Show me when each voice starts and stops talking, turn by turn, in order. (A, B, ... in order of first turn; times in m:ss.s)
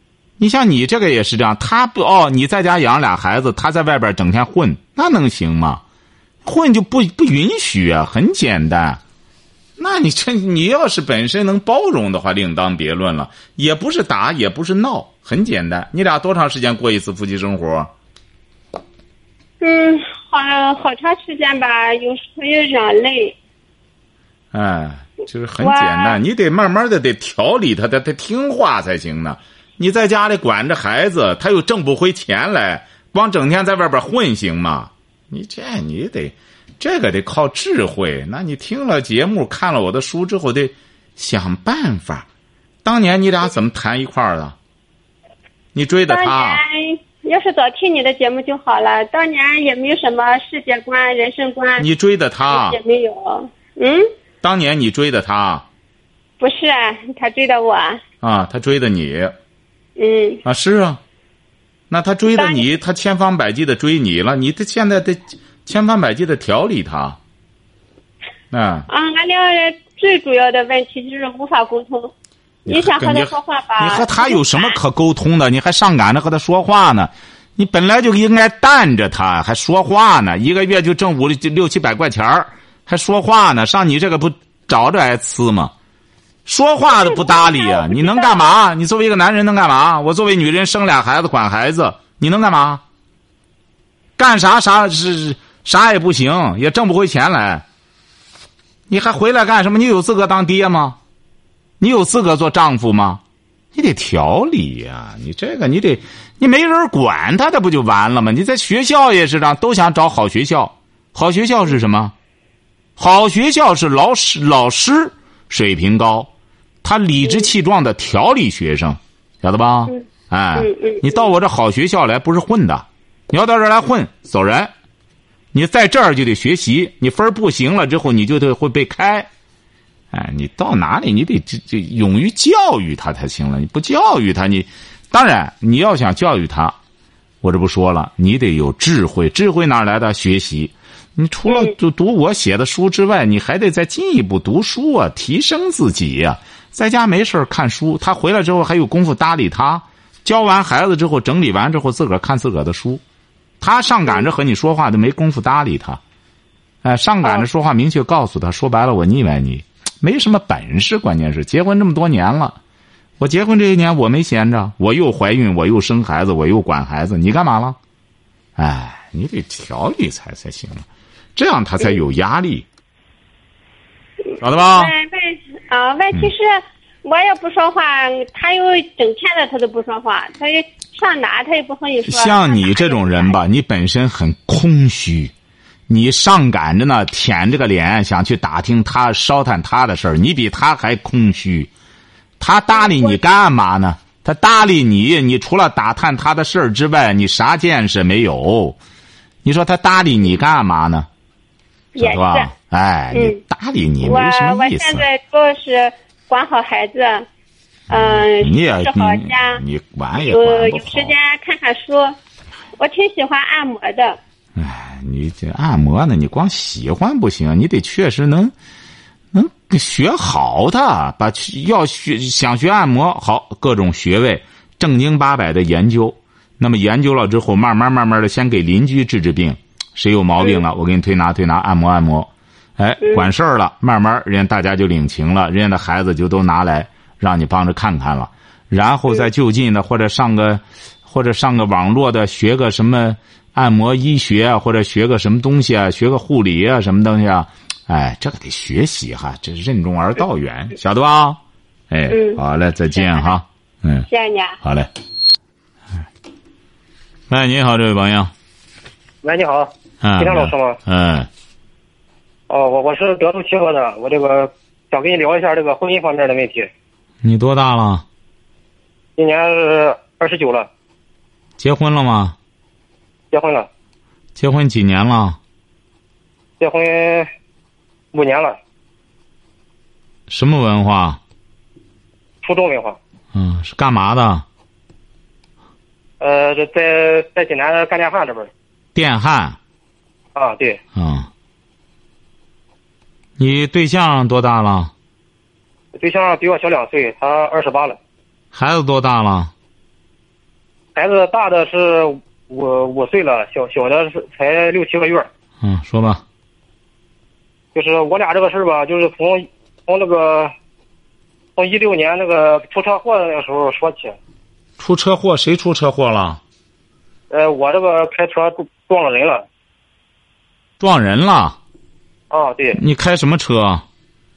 0:00.4-0:05.8 A
0:06.4-0:09.0 A
0:09.8-0:17.9 A
0:19.6-0:23.4 B
0:24.5-0:42.3 A
0:25.6-0:26.2 B
0:42.8-0:44.6 A
0:45.7-0:46.6 A
0:46.1-0:51.8 B
0:51.8-0:52.8 A
0:52.4-0:54.1 B
0:54.4-0:55.6 A
0:56.4-0:58.0 B
0:58.2-0:59.3 A
1:00.0-1:00.4 B
1:00.4-1:01.0 A
1:01.9-1:07.2 A
1:02.3-1:02.6 B
1:08.5-1:08.9 A
1:08.9-1:12.1 B
1:12.6-1:14.8 B
1:12.7-1:25.7 A
1:26.4-1:32.8 A
1:26.8-1:28.5 B
1:34.2-1:37.6 A
1:38.9-1:41.0 A
1:41.8-1:43.2 A
1:43.7-1:52.1 A
1:53.0-1:56.3 A
1:56.8-2:04.7 A
2:00.6-2:01.2 B
2:05.5-2:09.3 A
2:10.1-2:16.8 A
2:17.4-2:33.0 A
2:21.5-2:21.7 B
2:33.6-2:36.0 A
2:36.8-2:42.6 A
2:43.2-2:47.8 A
2:48.6-2:52.6 A
2:54.3-3:03.4 B
2:54.4-2:54.9 A
3:02.1-3:05.3 A
3:05.9-3:11.7 A
3:12.4-3:18.8 A
3:12.7-3:13.2 B
3:19.4-3:21.1 A
3:21.9-3:22.5 B
3:22.0-3:25.0 A
3:23.1-3:23.4 B
3:24.0-3:27.2 B
3:27.9-3:29.6 B
3:27.9-3:31.1 A
3:30.2-3:32.2 B
3:32.8-3:34.2 B
3:34.6-3:38.5 A
3:39.3-4:14.1 A
3:53.0-3:53.3 B
4:12.1-4:12.4 B
4:12.9-4:13.3 B
4:14.1-4:14.6 B
4:14.6-4:14.9 A
4:17.3-4:18.3 A
4:19.2-4:20.8 C
4:20.0-4:21.3 A
4:22.5-4:26.7 C
4:27.2-4:28.0 A
4:29.2-4:30.7 C
4:31.6-4:32.4 A
4:33.3-4:33.7 C
4:34.4-4:35.4 A
4:36.6-4:37.3 C
4:38.1-4:38.6 C
4:40.3-4:41.2 A
4:42.4-4:43.0 C
4:43.3-4:44.4 A
4:46.2-4:48.5 C
4:48.9-4:49.6 A
4:50.3-4:50.8 C
4:51.0-4:51.3 A
4:53.4-4:54.9 A
4:55.9-4:58.0 C
4:58.5-4:59.5 A
5:00.9-5:05.3 C
5:05.6-5:06.2 A
5:07.7-5:10.5 C
5:11.6-5:14.2 C
5:14.8-5:16.4 A
5:17.3-5:19.4 C
5:20.8-5:21.6 A
5:22.3-5:22.8 C
5:22.7-5:23.8 A